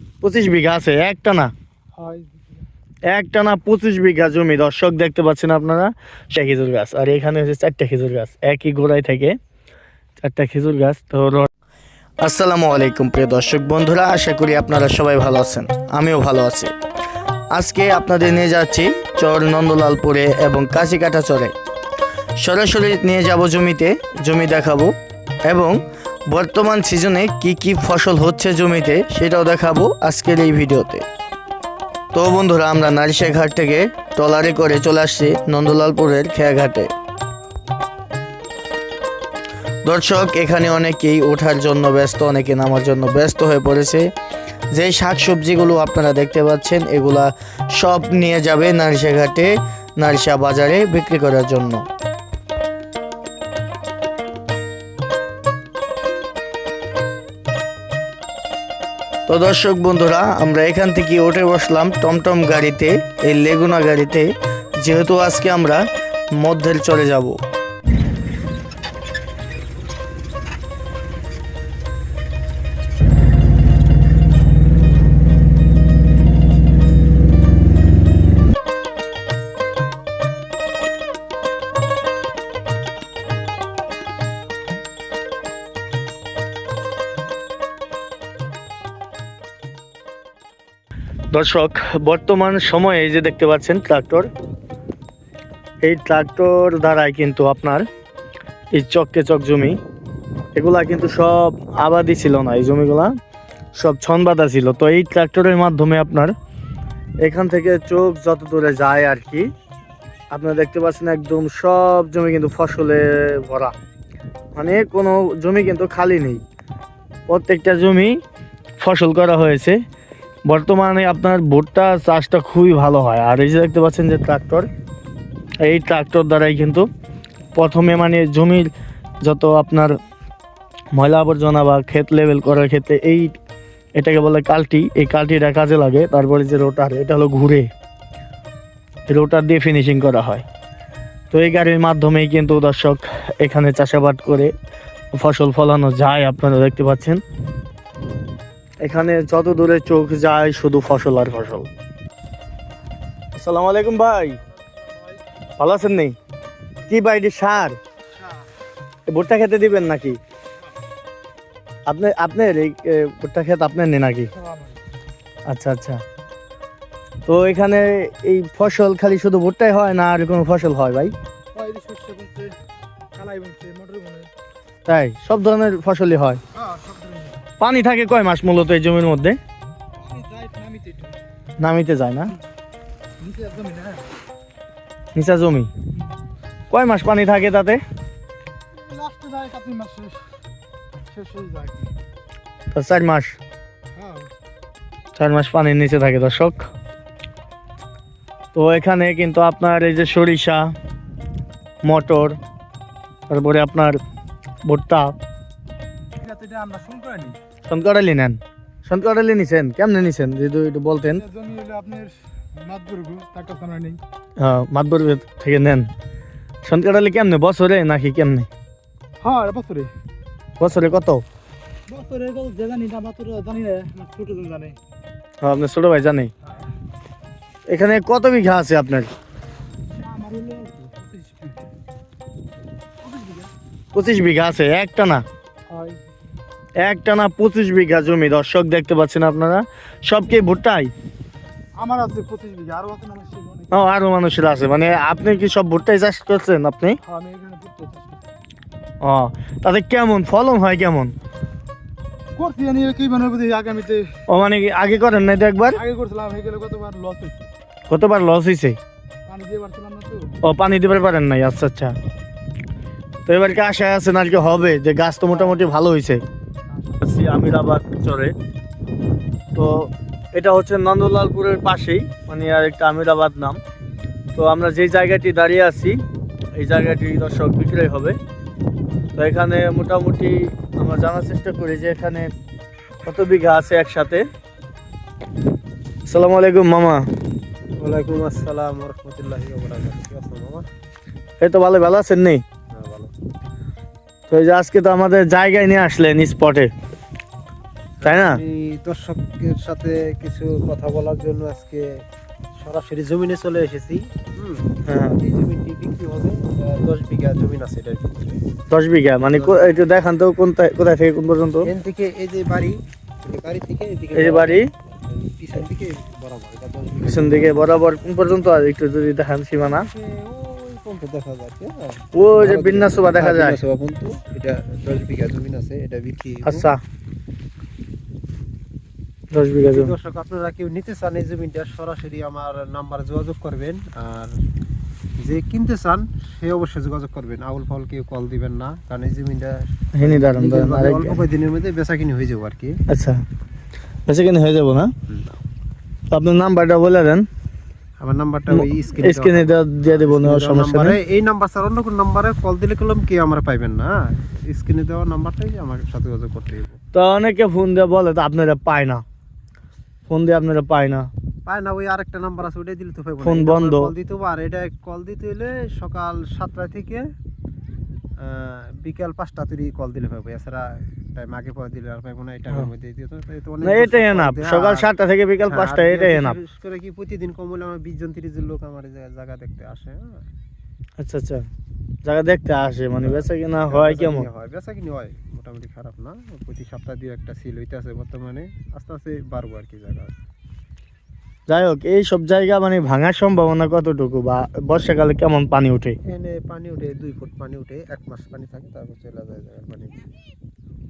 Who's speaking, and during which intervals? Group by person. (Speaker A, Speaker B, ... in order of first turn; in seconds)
Speaker A: 0.2-1.5, 3.1-9.3, 10.2-11.5, 12.2-16.7, 17.5-21.5, 22.4-24.9, 25.4-31.1, 32.1-36.9, 39.8-44.1, 44.7-51.9, 59.3-65.8, 66.4-67.4, 91.3-94.3, 95.8-97.8, 98.7-99.7, 100.5-103.1, 103.7-106.3, 107.2-109.5, 110.3-113.7, 114.5-116.4, 117.3-118.1, 118.8-119.8, 120.5-124.7, 125.6-126.8, 127.5-128.7, 129.2-129.9, 130.9-133.4, 134.0-137.7, 139.1-140.4, 141.3-144.5, 145.1-147.2, 148.8-151.7, 153.3-154.4, 155.6-156.2, 156.9-157.8, 159.1-160.2, 161.9-164.3, 165.5-166.0, 167.2-171.1, 174.8-176.4, 177.6-179.4, 181.6-182.3, 185.1-185.7, 186.7-187.8, 192.7-193.3, 195.1-196.7, 198.5-200.6, 201.8-202.3, 203.3-204.0, 204.6-205.1, 207.7-211.2, 214.4-215.9, 216.6-218.5, 220.6-221.2, 225.4-226.3, 227.7-229.1, 233.9-235.2, 236.8-240.9, 243.7-247.0, 249.0-251.1, 254.3-255.8, 257.9-258.8, 260.4-261.9, 263.2-266.2, 267.0-268.3, 269.5-273.6, 274.3-276.0, 276.6-278.1, 279.1-282.3, 283.0-284.2, 286.1-287.0, 291.4-292.4, 294.3-296.7, 298.0-298.4, 304.9-305.2, 308.7-311.7, 314.1-314.7, 317.1-319.9, 322.1-323.6, 326.4-326.8, 329.3-329.9, 339.9-341.2, 342.9-343.2, 344.1-344.9, 346.1-347.2, 348.5-351.0, 356.9-359.0, 360.1-361.1, 363.2-363.9, 373.6-376.4, 381.0-381.4, 382.0-384.3, 391.5-396.0
Speaker B: 1.9-2.5, 164.3-164.8, 171.5-172.6, 173.1-174.3, 176.5-177.4, 180.0-181.2, 183.2-184.1, 188.8-190.3, 191.1-191.9, 193.9-194.3, 206.2-207.4, 211.2-214.0, 219.2-219.9, 221.9-224.8, 229.9-231.6, 233.0-233.5, 235.7-236.0, 241.8-243.7, 247.0-248.2, 252.3-254.2, 255.8-257.5, 259.3-260.3, 266.7-267.0
Speaker C: 287.8-290.6, 292.7-293.1, 298.0-302.0, 302.6-308.4, 309.3-309.8, 311.6-317.8, 319.7-326.7, 329.6-334.3, 335.2-342.8, 345.1-345.4, 348.0-356.8, 361.4-367.0, 368.2-374.9, 375.5-380.2, 383.0-390.1, 396.1-400.1